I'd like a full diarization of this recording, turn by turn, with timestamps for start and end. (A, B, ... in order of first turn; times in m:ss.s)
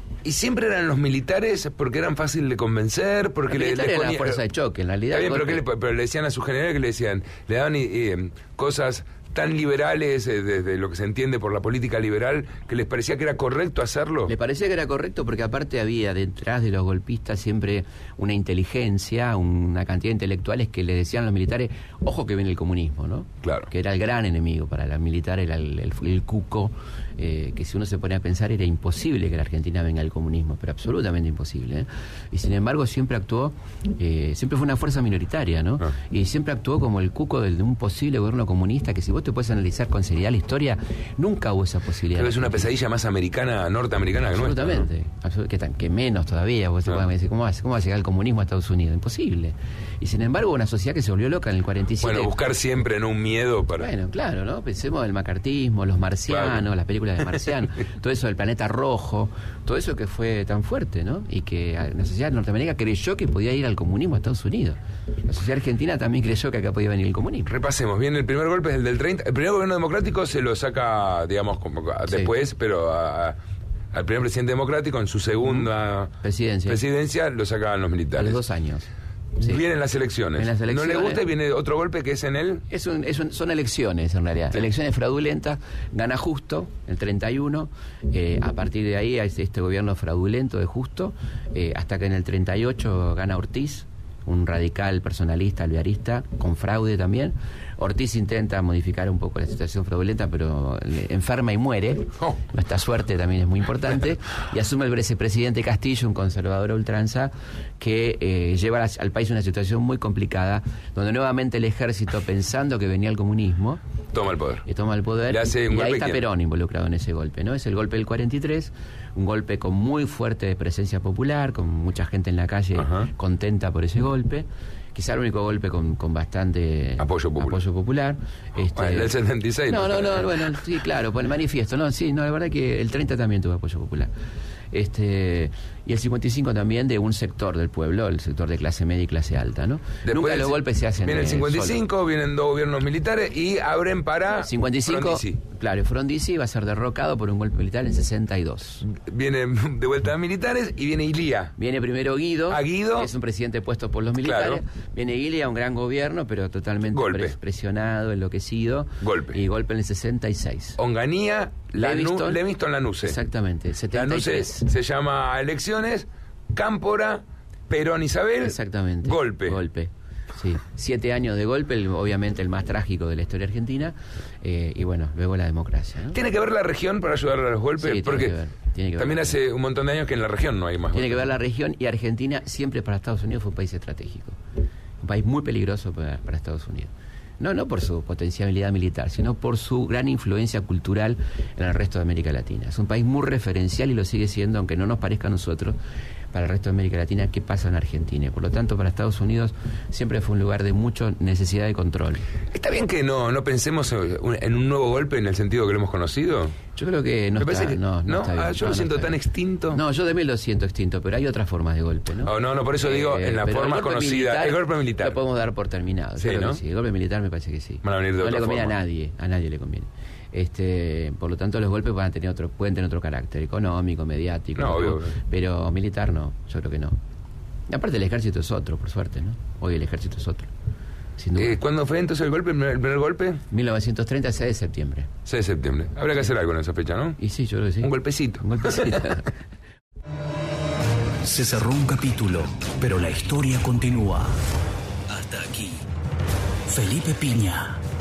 0:00.2-0:04.4 A
0:03.5-0:05.6 B
0:05.1-0:14.3 A
0:14.2-0:42.7 B
0:23.4-0:23.7 A
0:42.1-0:44.8 A
0:44.3-0:52.3 B
0:52.0-0:53.9 A
0:53.8-1:07.5 B
0:56.3-0:56.6 A
1:07.4-1:13.4 A
1:12.1-1:12.3 B
1:13.9-1:16.1 A
1:16.2-1:16.8 B
1:16.6-1:18.4 A
1:18.1-1:19.6 B
1:19.4-1:22.6 A
1:20.3-1:21.3 B
1:22.7-1:53.8 B
1:54.1-1:54.6 A
1:54.6-2:09.1 B
1:55.3-1:56.2 A
2:02.8-2:03.1 A
2:07.0-2:07.6 A
2:08.7-2:10.6 A
2:09.6-2:14.1 B
2:14.7-2:21.8 B
2:20.0-2:25.4 A
2:24.4-2:28.8 B
2:28.8-2:31.5 A
2:31.6-2:40.8 B
2:32.5-2:33.1 A
2:34.2-2:34.6 A
2:36.9-2:37.3 A
2:39.0-2:39.4 A
2:40.8-2:43.2 A
2:41.7-2:42.4 B
2:43.0-2:44.7 B
2:43.9-2:49.6 A
2:48.4-2:56.2 B
2:56.1-2:58.4 A
2:57.8-2:59.4 B
2:59.0-3:01.3 A
3:00.9-3:04.4 B
3:05.0-3:15.8 B
3:16.3-3:22.3 B
3:22.5-3:26.6 A
3:26.7-3:29.2 B
3:27.4-3:29.8 A
3:29.7-3:47.0 B
3:32.2-3:35.2 A
3:36.2-3:36.6 A
3:37.8-3:38.7 A
3:44.6-3:45.2 A
3:47.7-3:50.5 B
3:51.2-3:51.6 B
3:51.4-3:53.4 A
3:53.5-3:55.1 B
3:55.2-3:57.2 A
3:57.2-3:59.3 B
3:57.8-3:59.2 A
4:01.2-4:04.4 C
4:05.1-4:05.8 C
4:06.7-4:07.8 C